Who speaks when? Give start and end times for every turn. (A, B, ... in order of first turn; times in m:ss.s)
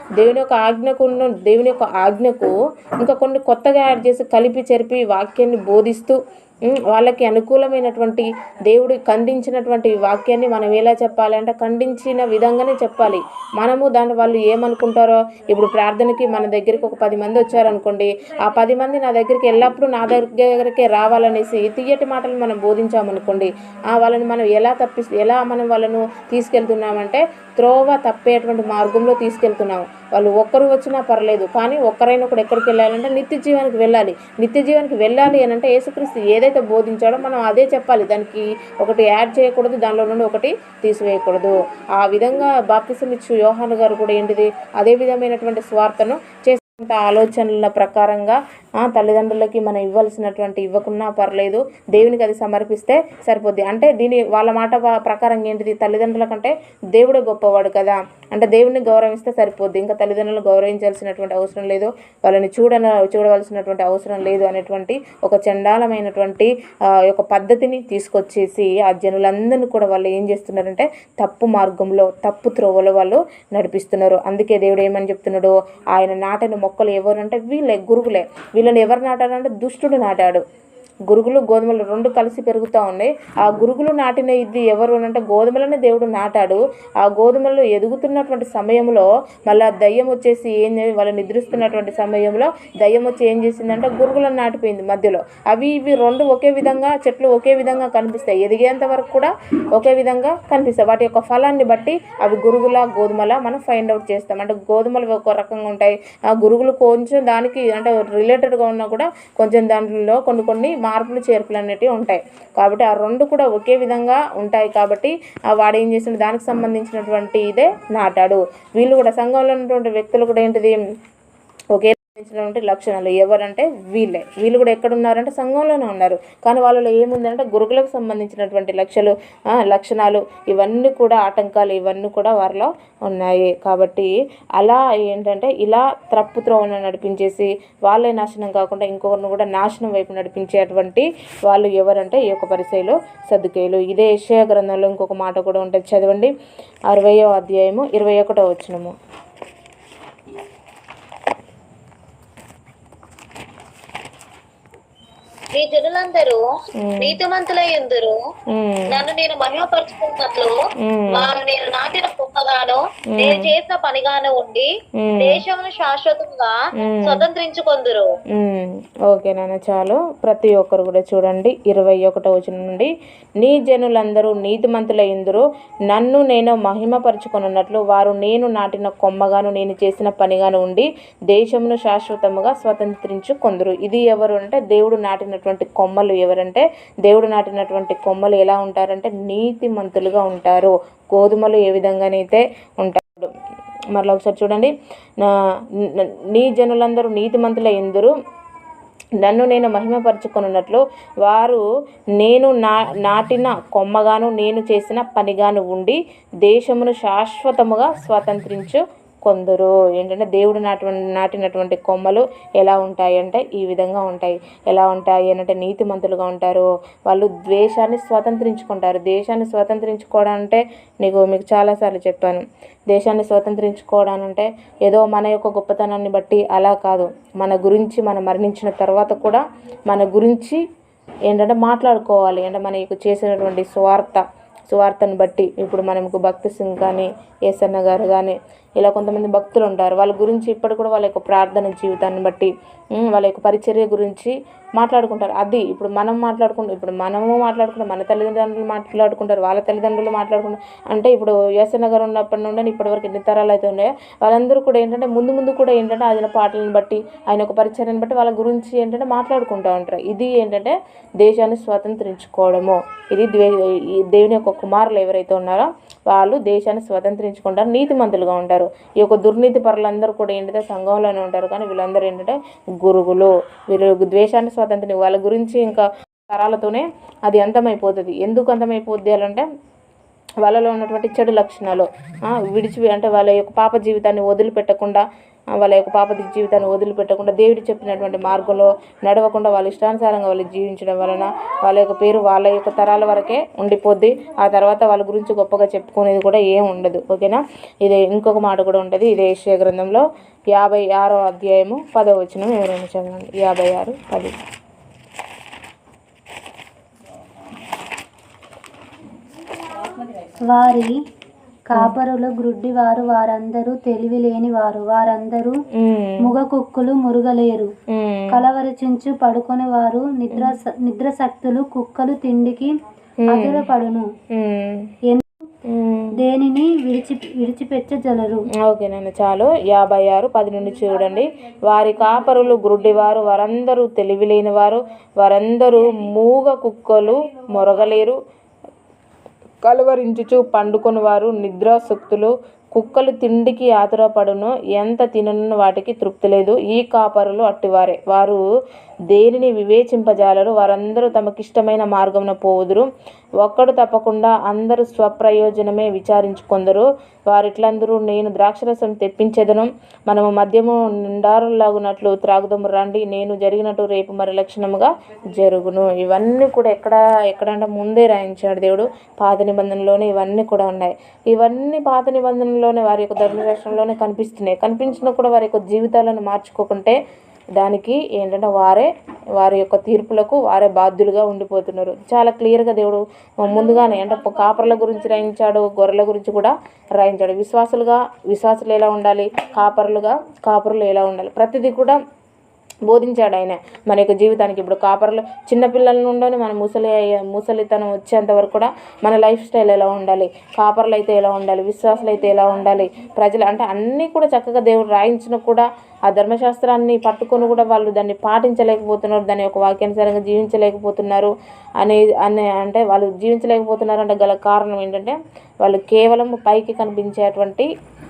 0:00.2-1:20.4 A
1:21.1-2:00.8 A
2:01.7-2:26.3 A
2:26.9-2:29.0 A
2:35.5-2:36.4 B
2:36.8-2:37.2 A
2:37.0-2:38.2 B
2:38.5-2:39.0 A
2:38.9-2:48.1 B
2:40.8-2:41.4 A
2:43.1-2:43.5 A
2:45.0-2:45.4 A
2:46.8-2:47.3 A
2:48.3-3:13.3 A
3:13.9-3:18.1 A
3:19.2-3:21.6 A
3:22.2-3:50.6 A
3:51.3-4:39.5 A
4:40.4-5:04.4 A
5:10.2-5:11.0 C
5:11.7-5:15.6 C
5:15.7-5:16.3 A
5:16.2-5:17.7 C
5:17.9-5:18.4 A
5:18.3-5:22.7 C
5:23.2-5:23.6 A
5:23.3-5:24.1 C
5:24.3-5:24.9 A
5:25.6-5:26.2 A
5:26.2-5:28.4 C
5:28.6-5:38.2 A
5:39.6-5:48.4 A
5:49.1-5:52.9 A
5:53.4-6:17.0 A
6:17.6-6:32.0 A
6:32.9-6:57.7 A